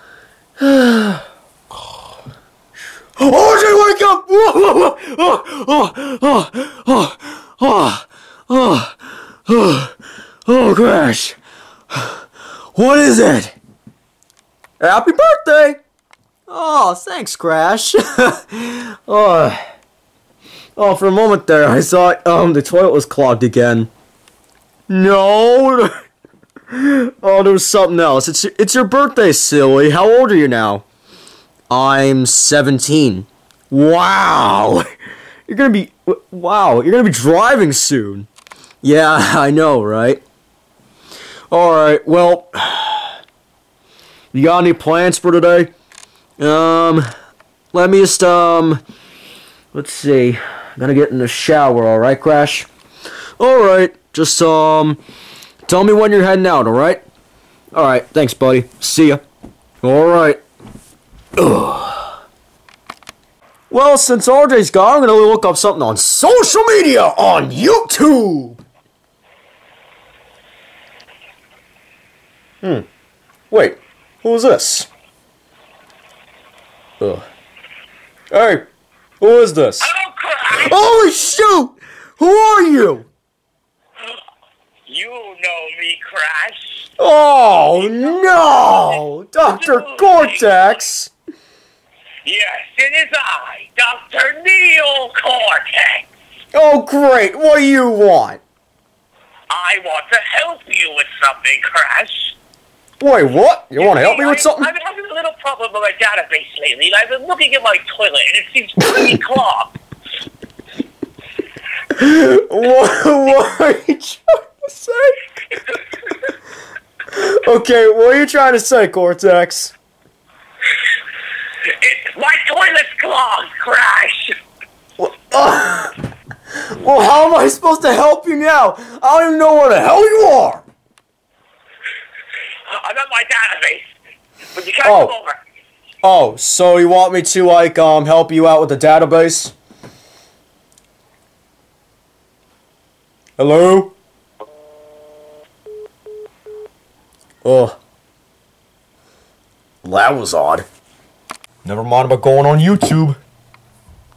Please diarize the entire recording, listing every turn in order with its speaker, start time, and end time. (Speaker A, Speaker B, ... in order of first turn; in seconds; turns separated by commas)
Speaker A: 0.6-1.2, Speaker A: 3.2-9.9, Speaker A: 10.5-11.4, Speaker A: 12.8-13.5, Speaker A: 14.8-15.8, Speaker A: 16.5-19.6, Speaker A: 20.8-23.9, Speaker A: 24.9-25.9, Speaker A: 26.7-30.9, Speaker A: 31.7-34.9, Speaker A: 35.5-38.3, Speaker A: 38.8-40.2, Speaker A: 41.5-43.1, Speaker A: 44.3-45.7, Speaker A: 46.4-47.1, Speaker A: 47.7-48.8, Speaker A: 49.7-52.7, Speaker A: 53.4-55.0, Speaker A: 55.7-57.0, Speaker A: 57.7-59.2, Speaker A: 59.8-60.4, Speaker A: 61.4-62.1, Speaker A: 63.7-68.6, Speaker A: 73.5-74.9, Speaker A: 77.0-77.3, Speaker A: 78.3-78.7, Speaker A: 79.2-79.9, Speaker B: 79.8-80.8, Speaker A: 80.5-83.1, Speaker B: 84.9-86.8, Speaker A: 87.0-91.1, Speaker B: 87.8-90.6, Speaker B: 92.2-96.1, Speaker A: 96.5-98.4, Speaker B: 99.5-102.3, Speaker A: 103.0-104.7, Speaker B: 103.8-109.7, Speaker A: 111.9-115.2, Speaker A: 117.1-119.8, Speaker B: 121.7-124.3, Speaker A: 125.0-125.9, Speaker A: 126.7-130.6, Speaker B: 132.7-133.9, Speaker B: 134.6-135.4, Speaker A: 134.8-135.1, Speaker A: 136.0-139.6, Speaker A: 143.4-143.9, Speaker A: 147.4-147.8, Speaker A: 149.8-150.7, Speaker A: 151.6-153.2